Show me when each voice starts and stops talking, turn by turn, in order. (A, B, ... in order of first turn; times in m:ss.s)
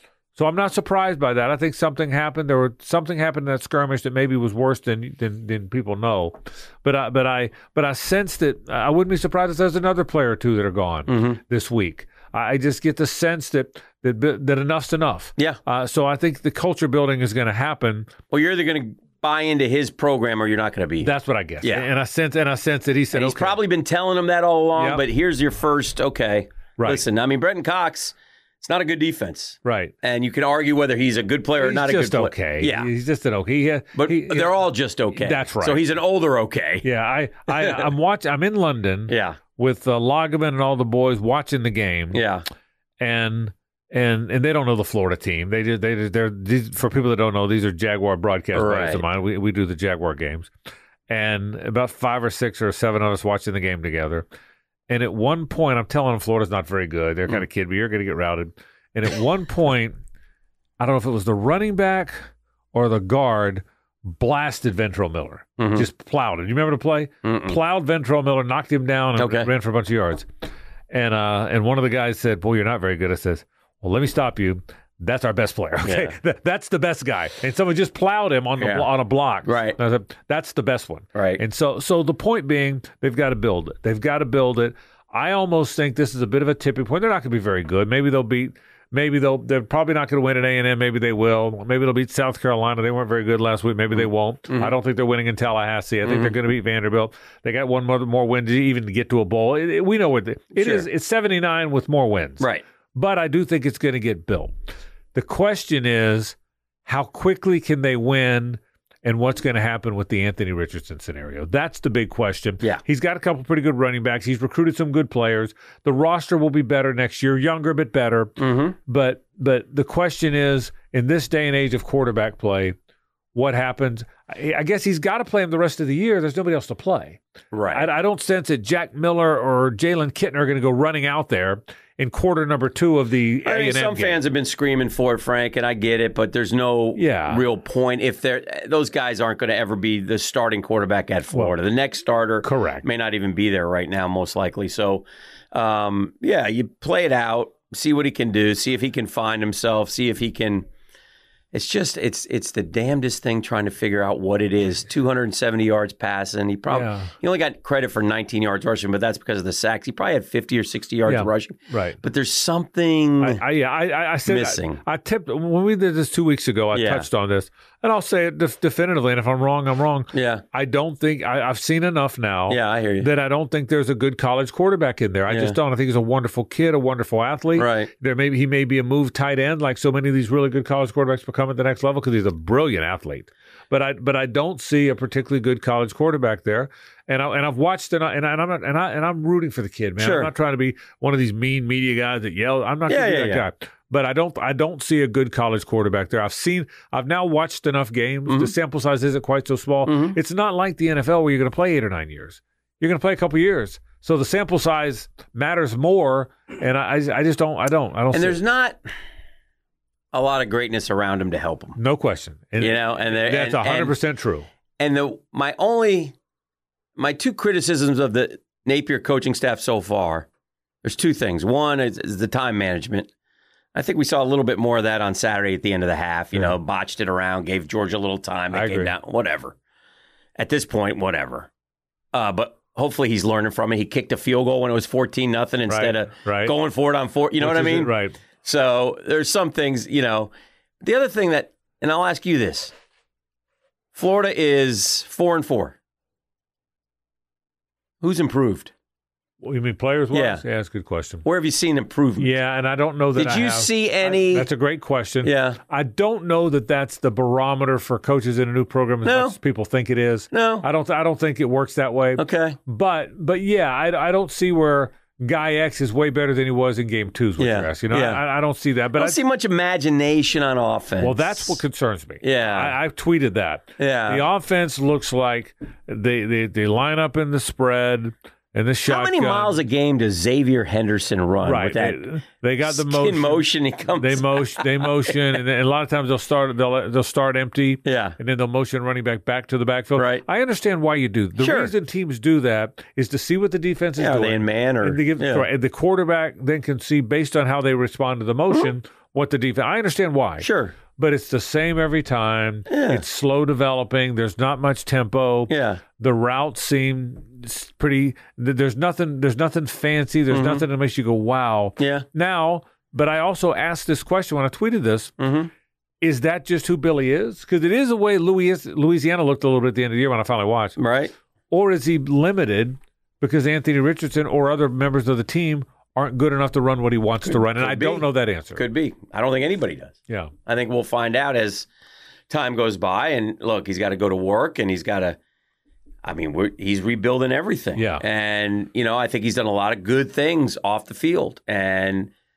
0:00.3-0:18.1 A
0:11.1-0:11.4 B
0:18.3-0:21.1 B
0:21.0-0:23.6 A
0:21.6-0:21.9 B
0:23.1-0:32.9 B
0:24.8-0:25.0 A
0:26.8-0:27.0 A
0:29.6-0:29.9 A
0:31.6-0:35.8 A
0:33.9-0:36.8 B
0:36.8-0:42.2 A
0:37.5-0:37.9 B
0:39.1-0:39.4 B
0:42.1-0:42.4 B
0:43.0-0:50.5 A
0:48.5-0:49.0 B
0:51.1-0:54.2 A
0:54.9-1:00.0 A
1:00.8-1:02.2 A
1:02.7-1:10.2 A
1:05.6-1:05.9 B
1:07.2-1:07.6 B
1:09.2-1:09.5 B
1:10.9-1:44.5 A
1:15.8-1:16.2 B
1:18.6-1:18.9 B
1:19.4-1:19.8 B
1:21.1-1:21.4 B
1:34.0-1:34.7 B
1:36.0-1:36.3 B
1:40.5-1:40.8 B
1:45.1-2:02.8 A
1:58.4-1:58.8 B
2:03.3-2:07.2 A
2:07.5-2:07.9 B
2:07.7-2:14.2 A
2:13.4-2:30.7 B
2:16.9-2:17.4 A
2:22.4-2:22.8 A
2:31.5-2:43.4 B
2:36.7-2:37.1 A
2:41.1-2:42.0 A
2:43.2-3:28.4 A
2:44.2-2:44.8 B
2:46.7-2:47.1 B
2:50.1-2:50.4 B
2:52.5-2:53.1 B
2:55.3-2:55.6 B
2:57.6-2:57.9 B
3:10.0-3:10.3 B
3:12.9-3:13.4 B
3:18.3-3:18.5 B
3:19.8-3:20.2 B
3:28.1-3:28.8 B
3:30.1-3:31.8 B
3:31.7-3:34.4 A
3:32.6-3:34.0 B
3:34.8-3:36.1 B
3:37.0-3:40.3 B
3:40.8-3:43.1 B
3:43.7-3:49.6 B
3:48.5-3:48.9 A
3:50.4-3:51.5 B
3:52.1-4:02.7 B
3:55.7-3:56.5 A
3:57.4-3:58.2 A
4:03.9-4:05.8 B
4:08.0-4:08.7 B
4:09.4-4:11.2 A
4:10.1-4:10.4 B
4:11.2-4:12.3 B
4:12.2-4:29.2 A
4:13.1-4:14.5 B
4:15.2-4:15.6 B
4:19.0-4:19.4 B
4:20.3-4:20.6 B
4:22.2-4:22.6 B
4:27.4-4:28.2 B
4:28.9-4:31.6 B
4:31.0-4:39.6 A
4:32.2-4:32.8 B
4:33.8-4:34.2 B
4:38.9-4:42.0 B
4:41.4-5:15.1 A
4:42.6-4:44.7 B
4:47.8-4:48.2 B
4:50.0-4:50.2 B
4:51.4-4:51.7 B
4:54.0-4:55.4 B
5:00.4-5:00.8 B
5:02.7-5:03.0 B
5:05.5-5:05.8 B
5:10.3-5:10.6 B
5:11.8-5:12.0 B
5:15.2-5:15.5 B
5:16.0-5:20.8 A
5:20.8-5:21.1 B
5:21.5-5:28.6 A
5:27.2-5:31.7 B
5:30.1-5:30.3 A
5:32.3-5:35.2 B
5:36.0-5:42.1 B
5:37.8-5:38.0 A